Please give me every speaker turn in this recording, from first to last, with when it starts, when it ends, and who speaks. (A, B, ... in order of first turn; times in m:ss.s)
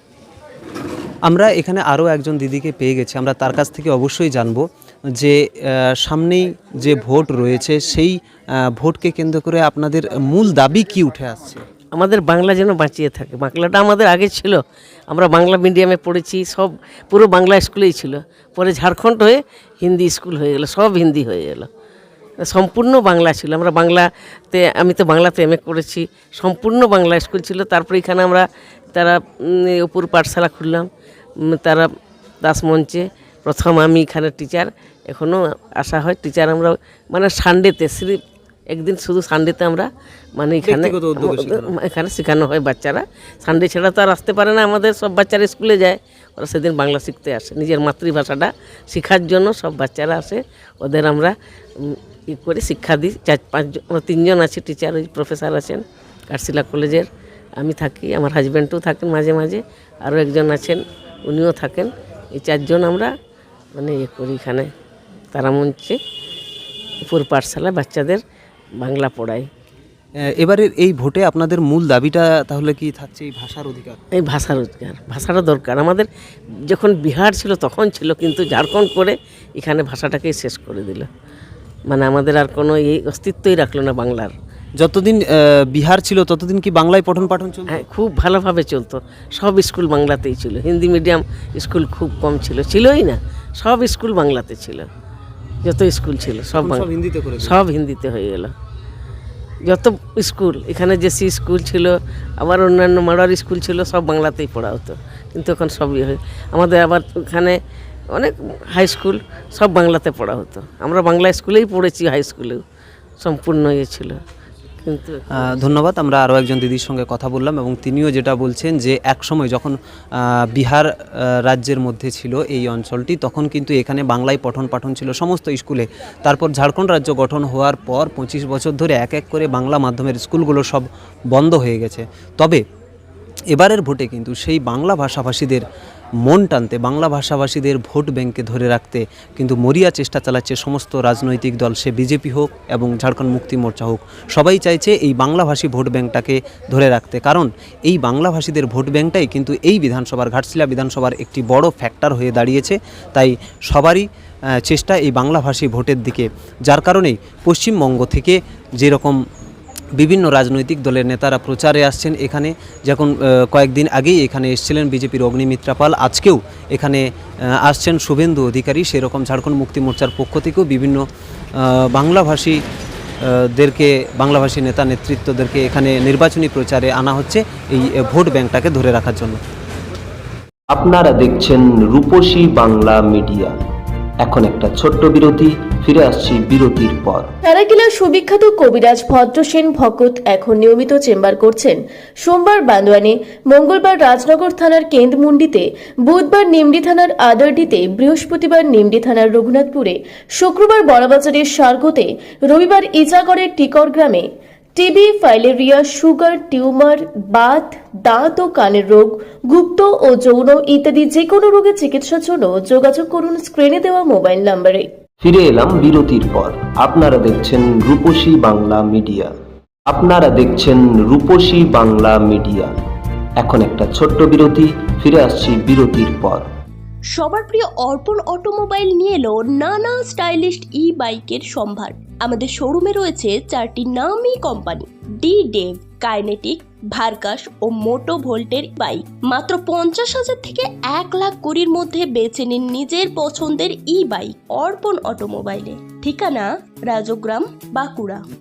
0:01.3-0:11.6 A
0:11.9-0:21.7 B
0:22.4-0:31.9 B
0:32.4-1:03.1 B
0:40.6-0:41.7 A
1:03.7-1:04.7 B
1:05.3-1:06.0 B
1:07.0-1:08.2 B
1:08.8-1:09.5 B
1:10.4-1:14.0 A
1:14.1-1:16.1 B
1:16.7-1:21.1 B
1:21.9-1:24.3 B
1:24.8-1:27.8 A
1:27.7-1:34.9 B
1:35.6-1:36.9 B
1:36.6-1:37.6 A
1:37.4-1:38.5 B
1:39.6-1:47.6 B
1:48.1-1:52.6 B
1:53.2-1:54.2 B
1:54.8-1:55.8 B
1:55.4-2:12.6 A
2:13.5-2:15.6 A
2:16.3-2:39.2 A
2:40.0-2:51.0 A
2:51.6-2:52.6 A
2:53.2-2:59.4 A
3:00.7-3:03.5 C
3:04.2-3:07.3 C
3:07.4-3:34.9 D
3:35.2-3:39.3 C
3:39.9-3:42.7 C
3:43.4-3:46.5 C
3:47.1-4:08.2 E